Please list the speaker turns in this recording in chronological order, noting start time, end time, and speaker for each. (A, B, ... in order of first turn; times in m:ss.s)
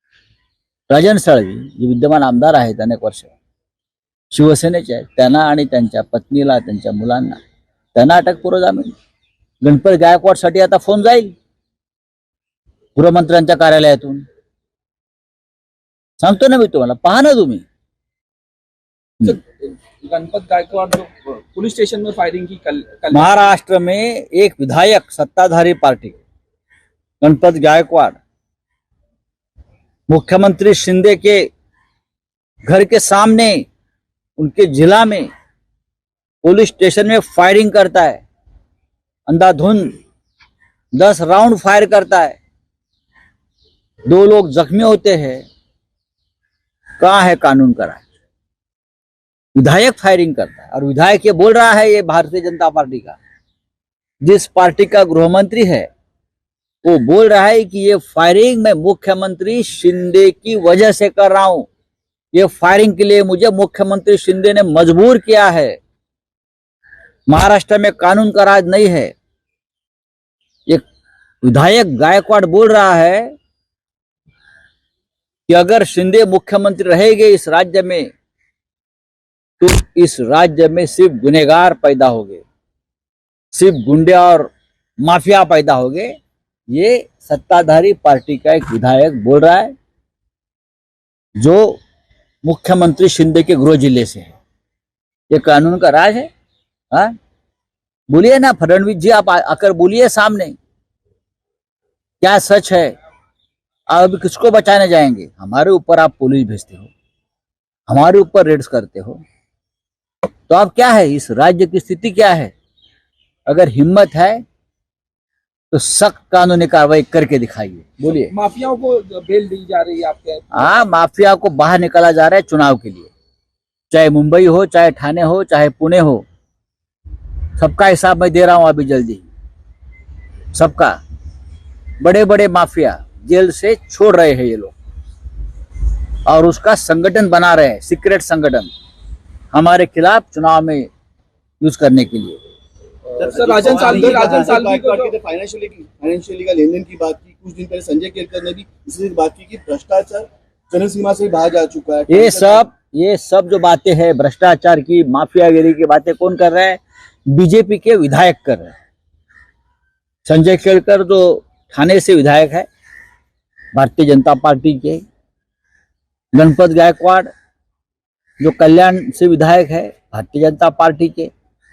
0:00.9-0:03.3 A
0:04.3-0:07.4 A
0:07.9-0:08.9 A
0:09.6-0:11.3 A
0:13.0-0:14.2 A
0:16.2-0:17.6 A
0:19.3-0:23.6 B
0:23.1-0:26.2 A
0:27.2-0:28.2 A
0:30.1-0:31.5 A
0:32.6-0:33.7 A
0:34.4-0:35.3 A
0:36.4-0:38.2 A
0:39.3-0:39.9 A
0:40.9-0:42.4 A
0:44.1-0:45.4 A
0:47.0-0:48.0 A
0:49.6-0:53.2 A
0:54.2-0:55.9 A
0:56.8-1:01.7 A
1:02.3-1:05.8 A
1:07.3-1:09.1 A
1:11.4-1:13.3 A
1:15.5-1:18.1 A
1:19.6-1:22.4 A
1:23.5-1:24.5 A
1:25.0-1:26.2 A
1:26.7-1:29.7 A
1:31.4-1:31.8 A
1:32.4-1:34.3 A
1:35.3-1:36.3 A
1:38.1-1:40.6 A
1:42.2-1:42.9 A
1:43.9-1:46.9 A
1:47.9-1:49.2 A
1:50.5-1:52.5 A
1:53.5-1:54.4 A
1:55.7-1:58.3 A
1:58.0-2:00.8 B
2:00.5-2:03.1 A
2:03.9-2:06.2 A
2:07.6-2:09.2 A
2:10.5-2:11.0 A
2:12.0-2:14.7 A
2:16.3-2:18.7 A
2:19.5-2:20.9 A
2:21.6-2:22.4 A
2:23.2-2:32.6 C
2:23.2-2:25.1 B
2:32.1-2:38.7 A
2:40.2-2:42.7 A
2:43.7-2:45.0 A
2:46.3-2:47.3 A
2:48.4-2:51.3 A